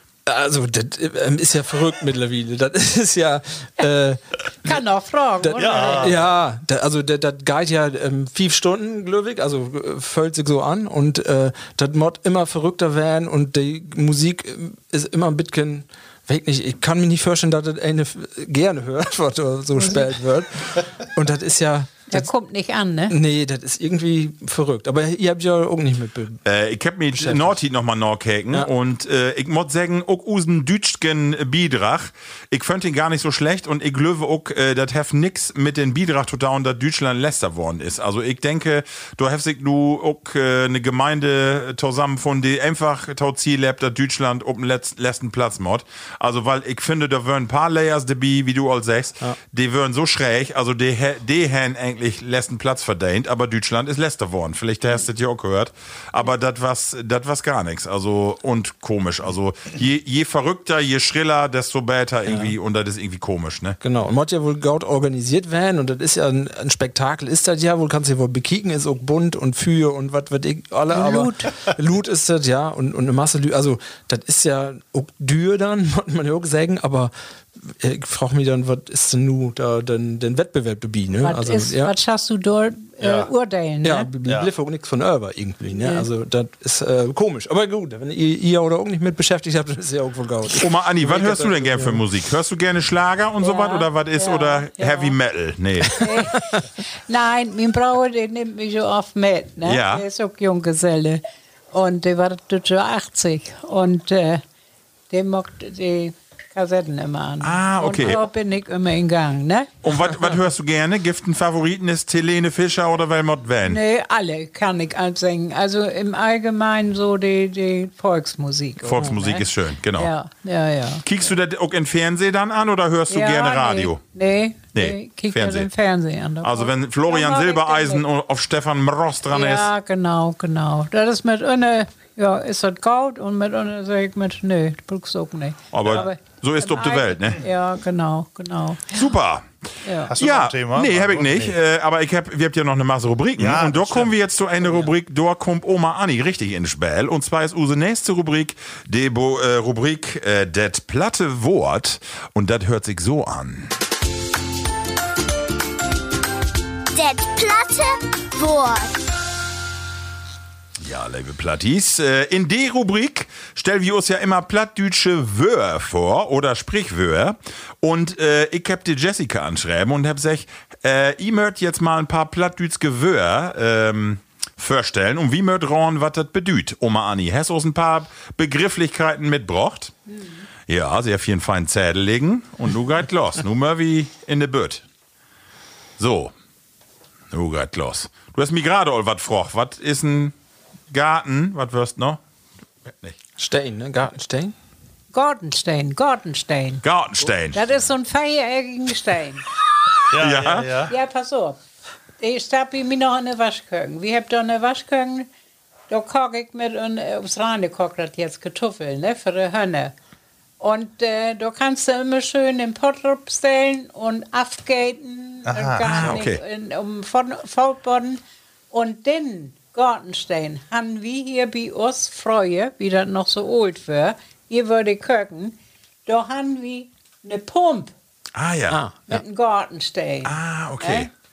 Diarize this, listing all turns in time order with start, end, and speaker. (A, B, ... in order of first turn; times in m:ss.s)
0:00.2-0:04.8 A
0:04.6-0:06.2 B
0:05.4-0:22.3 A
0:05.5-0:06.3 C
0:19.7-0:20.1 B
0:22.1-0:23.2 B
0:23.1-0:26.4 A
0:26.4-1:03.8 D
0:27.1-0:27.6 A
1:02.3-1:02.5 A
1:03.8-1:21.9 A
1:10.9-1:11.5 B
1:21.2-1:24.1 B
1:23.0-1:23.3 C
1:23.8-1:32.0 A
1:24.2-1:24.5 C
1:25.7-1:26.1 B
1:30.6-1:36.1 D
1:33.4-1:35.1 B
1:35.9-1:44.4 B
1:39.6-1:40.0 D
1:45.1-1:49.7 B
1:47.4-1:48.2 D
1:49.8-1:53.8 D
1:53.6-2:01.1 B
1:58.8-2:00.1 D
2:01.0-2:04.0 D
2:03.1-2:08.0 B
2:04.7-2:05.7 D
2:06.4-2:09.7 D
2:09.3-2:19.1 B
2:15.7-2:17.4 D
2:18.9-2:19.5 D
2:19.8-2:20.1 B
2:20.0-2:21.6 C
2:20.2-2:33.7 D
2:23.4-2:24.1 C
2:36.9-2:39.0 E
2:40.8-2:59.9 D
3:00.2-3:00.4 B
3:00.7-3:04.8 D
3:06.0-3:06.3 D
3:07.3-3:10.3 D
3:10.9-3:12.2 D
3:12.9-3:13.2 D
3:13.4-3:14.5 A
3:15.1-3:16.8 B
3:16.8-3:17.7 D
3:17.5-3:19.5 B
3:20.1-3:20.9 C
3:20.2-3:20.7 D
3:20.8-3:21.6 B
3:22.2-3:25.3 B
3:25.9-3:29.9 B
3:30.6-3:38.2 B
3:35.4-3:36.2 C
3:35.8-3:36.4 D
3:38.7-3:45.5 B
3:46.0-3:47.9 B
3:48.4-3:49.2 D
3:48.7-3:49.0 A
3:49.1-3:51.1 B
3:50.2-3:51.1 D